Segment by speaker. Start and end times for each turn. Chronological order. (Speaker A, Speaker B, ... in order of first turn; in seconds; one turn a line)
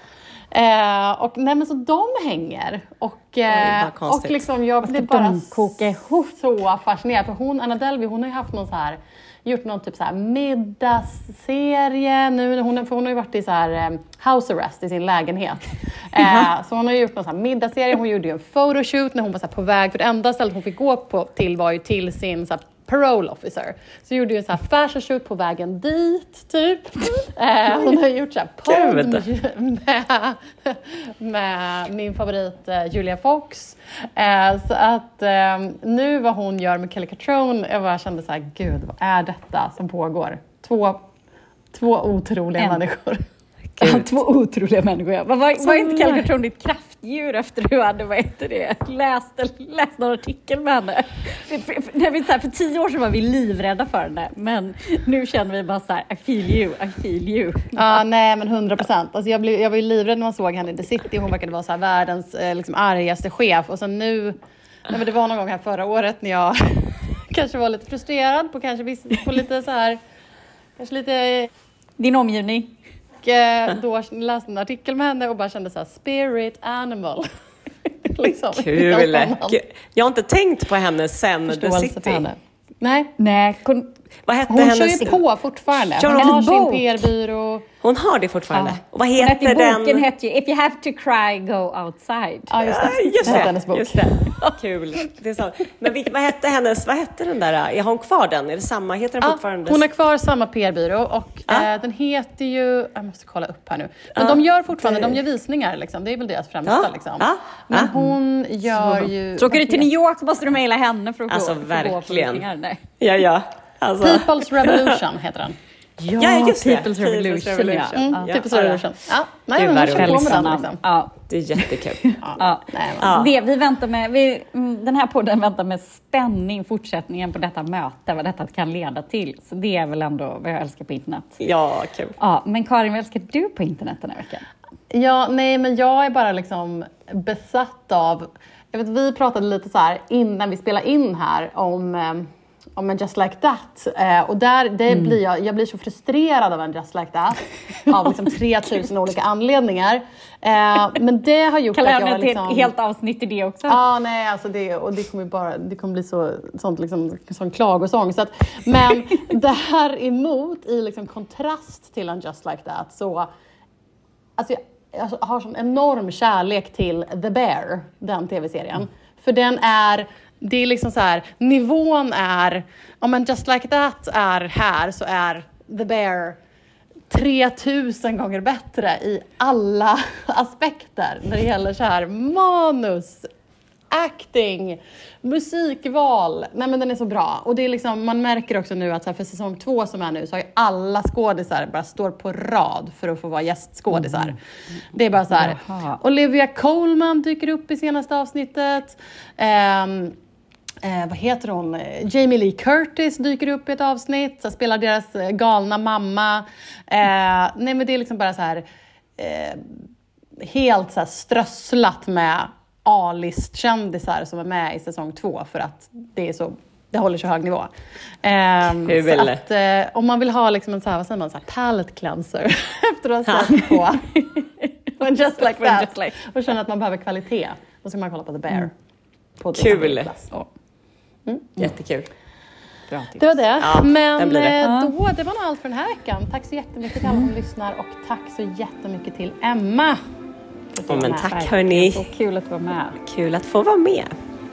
Speaker A: 0.5-41.0
Speaker B: 3.5-4.5
Speaker C: 4.8-6.3
Speaker B: 28.6-29.2
Speaker A: 41.7-43.2
Speaker C: 43.8-58.0
Speaker A: 45.7-46.2
Speaker A: 57.8-70.0
Speaker A: 70.8-71.5
Speaker C: 72.0-72.7
Speaker A: 73.2-77.3
Speaker A: 78.0-79.6
Speaker B: 78.5-82.3
Speaker A: 81.5-83.1
Speaker C: 83.2-83.9
Speaker B: 84.2-85.2
Speaker A: 84.5-87.7
Speaker B: 85.9-86.4
Speaker C: 86.0-87.0
Speaker B: 87.8-90.0
Speaker C: 88.5-93.5
Speaker A: 92.5-94.1
Speaker B: 92.6-99.8
Speaker A: 99.2-109.9
Speaker B: 104.2-105.2
Speaker B: 106.6-107.9
Speaker C: 108.7-112.8
Speaker B: 111.3-112.5
Speaker B: 113.0-115.0
Speaker A: 114.0-115.6
Speaker C: 116.0-118.3
Speaker B: 116.2-118.8
Speaker A: 117.9-120.8
Speaker B: 119.5-120.5
Speaker C: 119.9-131.4
Speaker B: 121.3-122.0
Speaker A: 122.2-123.1
Speaker B: 123.0-123.3
Speaker B: 131.4-132.2
Speaker C: 132.2-134.4
Speaker A: 134.9-152.7
Speaker C: 144.9-145.2
Speaker C: 151.7-153.8
Speaker A: 153.7-163.3
Speaker A: 164.4-176.4
Speaker A: 177.1-183.3
Speaker A: 183.9-194.4
Speaker C: 193.9-194.3
Speaker A: 194.9-200.2
Speaker C: 195.3-196.0
Speaker A: 200.8-208.6
Speaker A: 209.2-209.8
Speaker A: 210.4-217.7
Speaker A: 218.2-224.2
Speaker B: 218.8-219.4
Speaker B: 223.2-223.5
Speaker C: 224.1-226.2
Speaker A: 225.0-228.7
Speaker A: 229.4-230.3
Speaker B: 229.5-230.1
Speaker A: 231.2-231.5
Speaker B: 231.6-232.1
Speaker C: 232.9-233.3
Speaker A: 233.2-240.0
Speaker B: 233.6-234.6
Speaker C: 234.6-234.9
Speaker C: 240.8-243.0
Speaker B: 240.8-242.1
Speaker B: 243.0-244.1